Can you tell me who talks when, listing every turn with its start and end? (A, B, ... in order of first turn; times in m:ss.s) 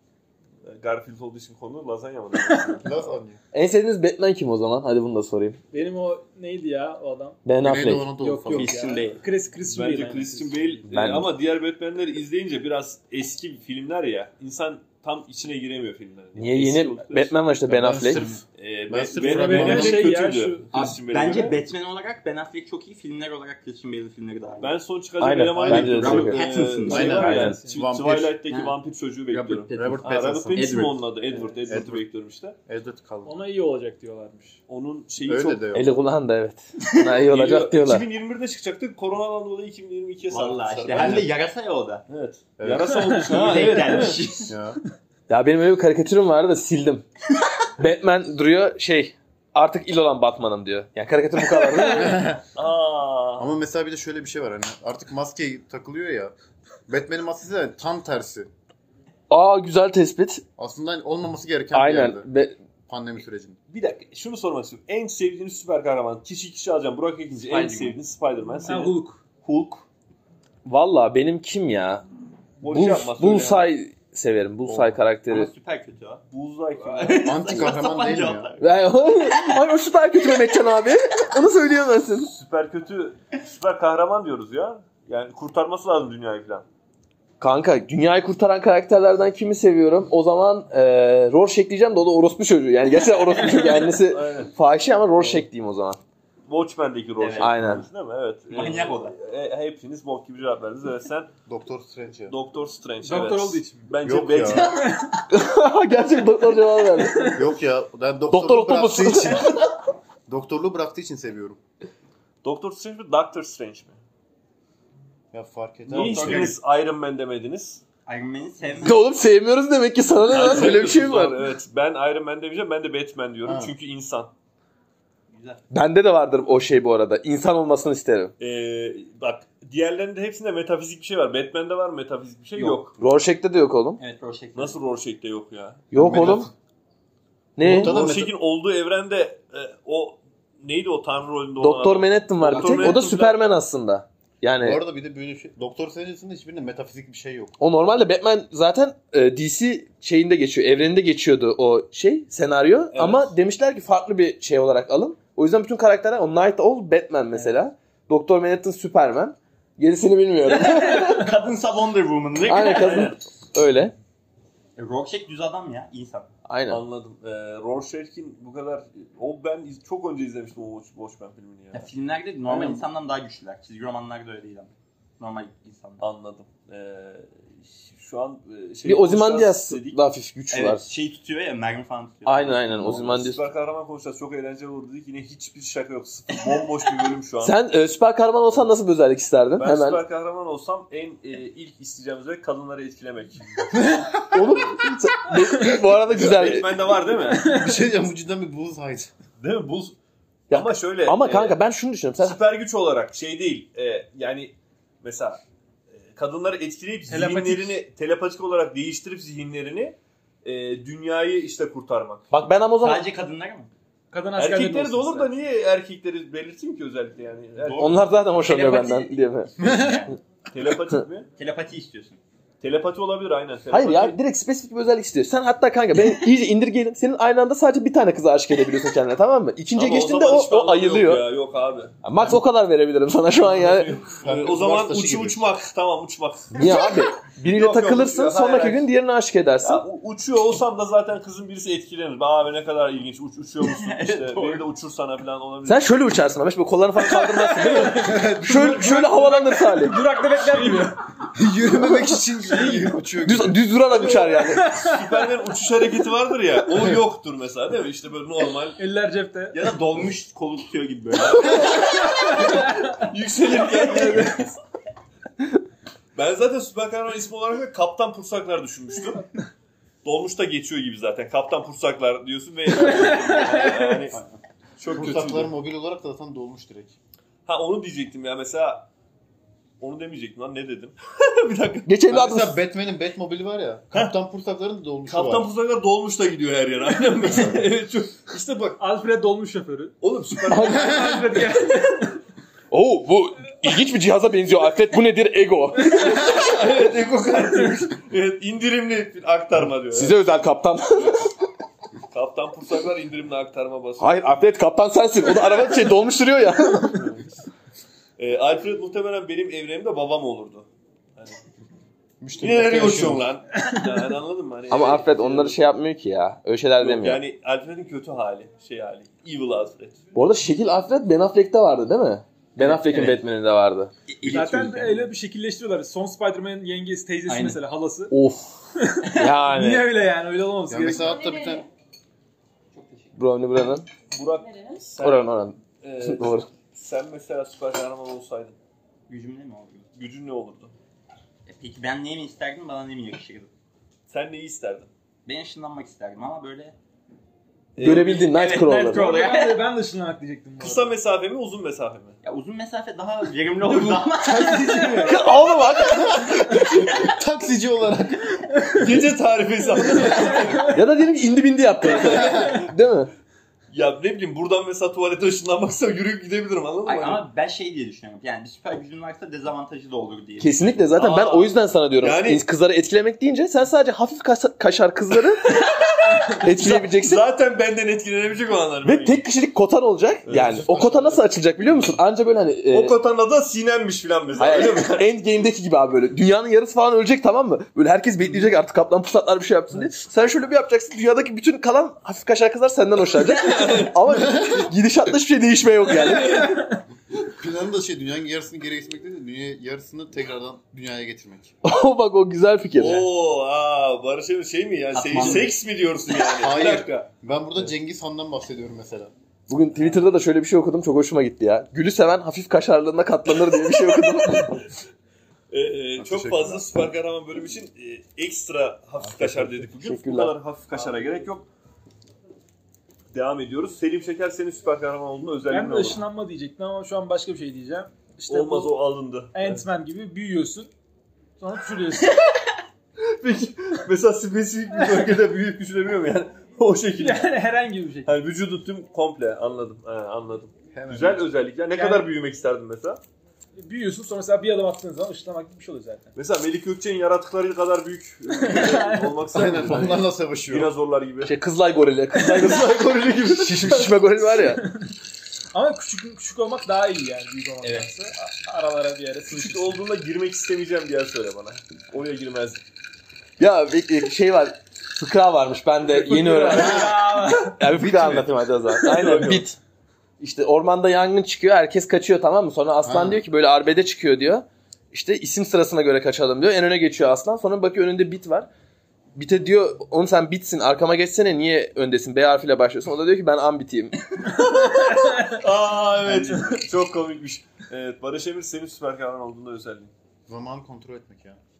0:00.6-0:03.1 A
0:02.4-0:02.8 B
0:02.8-0:03.4 C
0:03.5-0:05.6 D
0:05.7-0:07.4 B
0:07.4-0:08.1 D
0:07.6-0:08.8 C
0:08.2-0:10.9 B
0:08.5-0:09.2 E
0:09.6-0:17.3 A
0:10.9-0:11.3 D
0:16.4-0:18.2 D
0:17.7-0:20.1 C
0:18.1-0:18.4 E
0:18.6-0:21.6 A
0:19.2-0:20.7 B
0:20.7-0:24.8 E
0:24.6-0:32.6 A
0:25.2-0:26.4 D
0:25.6-0:26.2 C
0:25.6-0:27.3 E
0:26.8-0:28.4 C
0:27.0-0:27.8 B
0:27.2-0:27.6 D
0:28.5-0:28.7 E
0:29.3-0:31.5 E
0:29.7-0:30.8 C
0:31.7-0:32.0 C
0:32.7-0:33.4 C
0:33.2-0:34.6 B
0:34.7-0:35.6 A
0:35.2-0:35.9 C
0:35.7-0:38.0 D
0:36.9-0:37.1 E
0:37.2-0:41.2 A
0:40.3-0:42.0 E
0:40.7-0:41.4 C
0:42.1-0:44.2 A
0:42.6-0:43.7 C
0:43.3-0:44.5 E
0:44.4-0:44.8 C
0:45.3-0:47.0 D
0:47.8-0:52.2 D
0:51.9-0:52.4 C
0:52.5-0:53.5 A
0:53.4-0:56.3 C
0:56.9-0:58.5 C
0:59.3-1:00.4 D
1:00.6-1:02.3 C
1:01.7-1:02.5 D
1:02.9-1:03.6 C
1:03.7-1:09.8 A
1:07.5-1:07.9 E
1:08.6-1:09.2 B
1:10.6-1:12.0 D
1:12.6-1:13.7 A
1:12.6-1:15.5 D
1:14.6-1:15.0 C
1:15.3-1:16.2 E
1:16.3-1:17.7 A
1:16.8-1:18.7 E
1:17.2-1:18.5 C
1:18.6-1:22.3 D
1:22.3-1:26.6 A
1:27.4-1:36.0 D
1:33.6-1:33.8 B
1:34.0-1:34.5 A
1:36.5-1:41.3 A
1:37.2-1:37.5 E
1:37.4-1:37.8 D
1:38.5-1:39.2 E
1:41.4-1:42.4 C
1:42.3-1:44.8 A
1:43.0-1:43.9 B
1:44.0-1:44.7 C
1:44.5-1:45.0 E
1:44.8-1:45.1 B
1:45.3-1:47.4 D
1:47.3-1:49.6 C
1:48.3-1:49.5 D
1:50.3-1:51.6 C
1:52.4-1:54.0 A
1:55.3-1:56.5 C
1:55.9-1:57.8 A
1:55.9-1:56.6 E
1:58.0-1:59.2 E
1:58.8-2:01.4 D
2:00.3-2:04.3 A
2:03.4-2:03.7 C
2:05.3-2:05.6 E
2:05.7-2:08.3 D
2:08.4-2:12.9 A
2:12.6-2:12.9 E
2:13.0-2:14.0 D
2:14.0-2:14.8 E
2:14.5-2:16.4 A
2:15.9-2:16.5 D
2:15.9-2:16.5 C
2:17.6-2:18.0 D
2:17.6-2:18.3 C
2:17.6-2:23.4 A
2:21.6-2:24.8 D
2:22.5-2:23.0 E
2:24.6-2:27.5 C
2:27.6-2:41.3 D
2:32.9-2:33.3 A
2:37.3-2:37.6 E
2:40.5-2:43.1 E
2:42.4-2:43.2 A
2:42.4-2:43.9 D
2:44.8-2:46.3 E
2:46.5-2:46.8 D
2:46.7-2:51.9 A
2:51.7-2:56.0 E
2:52.4-2:52.8 A
2:56.0-2:57.3 A
2:57.9-3:00.0 A
2:58.8-3:00.9 D
3:00.5-3:02.8 E
3:02.2-3:03.4 D
3:02.8-3:07.6 A
3:07.4-3:10.0 D
3:09.6-3:13.4 A
3:13.7-3:14.6 C
3:14.3-3:16.7 D
3:16.1-3:17.5 A
3:17.3-3:17.8 B
3:17.3-3:19.1 C
3:19.4-3:19.9 A
3:20.5-3:22.4 D
3:20.5-3:21.6 A
3:22.2-3:25.4 A
3:26.1-3:32.2 A
3:27.1-3:27.8 B
3:32.3-3:33.0 D
3:32.8-3:33.7 E
3:34.1-3:35.3 B
3:34.4-3:38.0 A
3:37.6-3:40.2 E
3:37.8-3:39.5 D
3:39.6-3:40.0 C
3:40.5-3:41.3 A
3:41.4-3:42.2 E
3:42.6-3:44.2 A
3:43.7-3:51.2 D
3:49.7-3:52.0 A
3:52.0-3:53.9 D
3:53.4-3:56.8 A
3:54.2-3:55.4 C
3:56.5-3:59.8 D
3:57.4-3:58.8 A
3:59.6-4:06.0 A
4:03.6-4:04.6 E
4:05.6-4:10.0 D
4:07.1-4:11.0 B
4:07.9-4:09.1 C
4:11.3-4:13.6 C
4:13.2-4:14.7 D
4:13.9-4:18.8 A
4:14.4-4:15.2 B
4:18.8-4:19.6 B
4:19.5-4:22.1 E
4:21.2-4:24.5 A
4:21.8-4:23.0 B
4:23.8-4:24.3 B
4:26.1-4:29.2 A
4:30.0-4:34.2 A
4:32.7-4:34.1 B
4:34.8-4:35.5 A
4:34.9-4:37.0 C
4:37.4-4:38.9 A
4:39.8-4:42.0 A
4:41.8-4:42.6 D
4:42.1-4:45.5 C
4:45.1-4:48.8 A
4:48.8-4:50.0 B
4:50.0-4:51.3 A
4:50.5-4:50.9 D
4:50.5-4:52.2 B
4:50.9-4:51.3 C
4:52.7-4:56.3 D
4:55.8-4:56.3 B
4:55.9-5:00.2 A
4:59.9-5:01.3 D
5:02.1-5:04.1 A
5:04.0-5:07.0 D
5:06.9-5:07.3 A
5:08.2-5:11.4 A
5:12.2-5:13.3 C
5:12.4-5:15.6 A
5:14.7-5:17.2 D
5:16.8-5:20.0 A
5:20.1-5:23.9 D
5:22.6-5:23.2 E
5:24.1-5:25.1 E
5:24.2-5:28.1 B
5:27.3-5:27.6 E
5:28.1-5:29.9 D
5:28.8-5:31.2 B
5:30.7-5:31.6 C
5:32.7-5:33.1 E
5:33.1-5:33.9 D
5:34.1-5:38.6 A
5:35.0-5:36.5 D
5:39.1-5:39.8 E
5:39.9-5:40.7 A
5:41.4-5:43.5 E
5:44.1-5:44.9 A
5:45.2-5:46.8 E
5:47.7-5:48.2 A
5:47.8-5:49.1 D
5:47.8-5:49.6 E
5:48.8-5:50.9 B
5:50.6-5:52.2 A
5:52.2-5:57.1 E
5:53.6-5:54.0 A
5:54.2-5:55.2 B
5:55.0-5:56.4 D
5:55.9-5:58.4 C
5:58.5-5:58.8 B
5:58.8-6:00.8 A
5:59.8-6:00.8 B
6:00.7-6:03.1 D
6:01.8-6:02.6 A
6:03.7-6:07.2 A
6:06.8-6:10.8 E
6:10.4-6:15.5 D
6:10.9-6:12.4 A
6:16.3-6:19.2 A
6:16.4-6:17.2 D
6:18.8-6:23.0 D
6:20.2-6:21.2 A
6:22.7-6:25.1 A
6:24.4-6:36.6 D
6:33.1-6:34.0 A
6:34.3-6:34.7 C
6:35.9-6:36.6 A
6:36.0-6:36.8 B
6:37.4-6:41.5 C
6:41.6-6:43.1 D
6:42.7-6:47.1 A
6:44.9-6:45.5 E
6:46.4-6:49.1 C
6:49.5-6:54.6 D
6:53.5-6:54.6 A
6:55.5-7:01.5 A
6:56.0-6:56.7 C
6:59.2-7:00.4 D
7:03.1-7:06.0 A
7:05.5-7:08.7 B
7:08.3-7:09.6 A
7:09.3-7:10.7 B
7:11.4-7:12.2 B
7:13.0-7:17.4 A
7:17.0-7:18.1 B
7:18.0-7:23.0 A
7:20.7-7:21.2 C
7:21.7-7:22.1 B
7:23.6-7:26.1 B
7:26.2-7:31.4 A
7:28.4-7:29.2 B
7:29.3-7:30.7 C
7:31.2-7:34.6 D
7:32.2-7:33.9 A
7:34.4-7:34.9 B
7:35.5-7:39.7 B
7:37.6-7:37.9 E
7:39.3-7:42.6 A
7:43.4-7:46.9 D
7:46.0-7:46.9 A
7:46.1-7:47.6 B
7:46.5-7:47.0 C
7:46.7-7:47.5 E
7:47.5-7:49.6 D
7:47.7-7:48.2 C
7:48.8-7:49.4 A
7:50.2-7:58.5 D
7:52.8-7:53.2 C
7:59.1-8:04.0 D
8:04.4-8:05.4 B
8:04.7-8:09.9 A
8:06.1-8:06.4 B
8:10.3-8:11.4 C